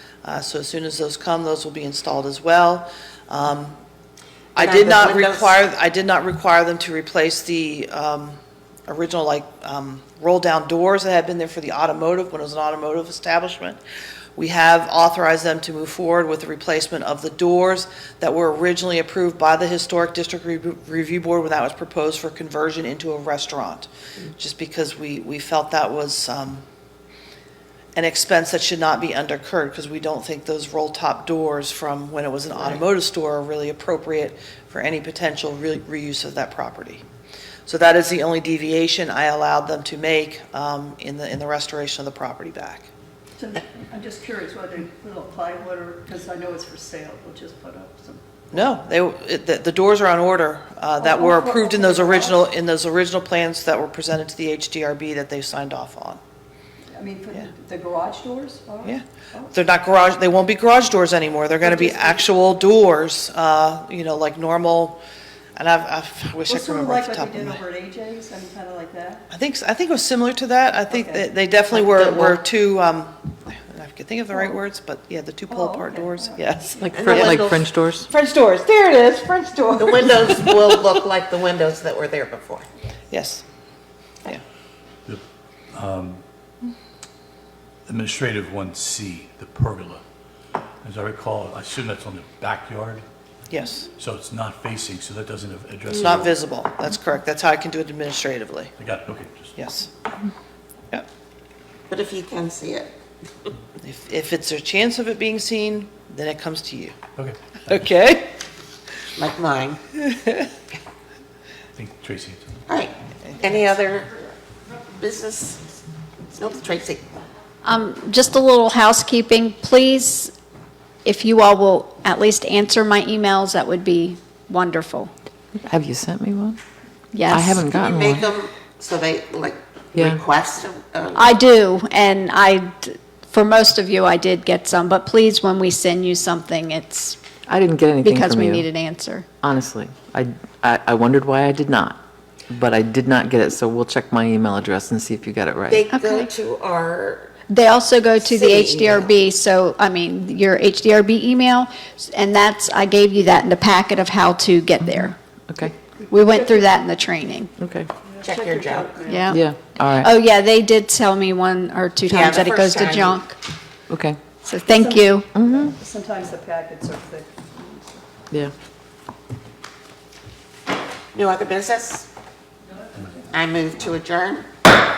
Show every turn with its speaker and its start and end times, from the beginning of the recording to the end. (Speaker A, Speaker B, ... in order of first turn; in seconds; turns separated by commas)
Speaker A: 0.2-3.8, Speaker A: 4.5-13.8, Speaker B: 4.6-5.6, Speaker A: 14.4-26.6, Speaker A: 27.9-37.0, Speaker A: 37.7-42.9, Speaker C: 43.4-48.2, Speaker A: 48.5-56.2, Speaker C: 51.0-52.5, Speaker C: 56.9-59.6, Speaker A: 58.8-65.0, Speaker C: 61.6-62.3, Speaker A: 65.6-67.6, Speaker C: 66.5-69.2, Speaker A: 69.3-77.5, Speaker C: 70.9-71.2, Speaker B: 71.7-72.4, Speaker C: 75.5-76.5, Speaker D: 76.8-78.1, Speaker B: 76.9-77.7, Speaker A: 78.1-80.8, Speaker B: 79.8-82.7, Speaker A: 83.1-83.4, Speaker E: 85.7-86.2, Speaker E: 87.9-90.0, Speaker E: 90.8-93.0, Speaker A: 93.5-93.9, Speaker E: 94.0-96.3, Speaker A: 95.9-98.7, Speaker E: 98.8-99.6, Speaker A: 99.6-99.9, Speaker B: 101.9-102.9, Speaker A: 103.8-107.0, Speaker E: 107.2-107.8, Speaker A: 107.7-108.3, Speaker B: 109.2-109.8, Speaker A: 110.0-110.5, Speaker E: 111.8-112.6, Speaker B: 112.7-115.8, Speaker B: 116.3-117.0, Speaker F: 117.6-120.3, Speaker F: 121.0-125.1, Speaker D: 125.6-126.6, Speaker F: 127.1-127.6, Speaker D: 127.3-128.3, Speaker B: 127.7-131.4, Speaker D: 129.9-130.2, Speaker F: 131.2-137.2, Speaker D: 137.5-138.7, Speaker F: 138.0-139.3, Speaker D: 139.4-145.8, Speaker B: 145.7-147.4, Speaker F: 145.9-146.3, Speaker F: 147.5-155.2, Speaker B: 148.2-149.1, Speaker D: 154.8-155.7, Speaker C: 156.1-156.8, Speaker F: 156.1-157.5, Speaker D: 157.6-157.9, Speaker C: 158.1-159.4, Speaker B: 158.2-158.9, Speaker F: 159.1-159.4, Speaker D: 159.3-160.1, Speaker F: 160.0-163.4, Speaker B: 162.1-163.2, Speaker D: 163.9-164.2, Speaker F: 164.4-165.3, Speaker C: 164.7-168.0, Speaker D: 165.3-165.7, Speaker B: 171.1-172.1, Speaker B: 173.3-174.5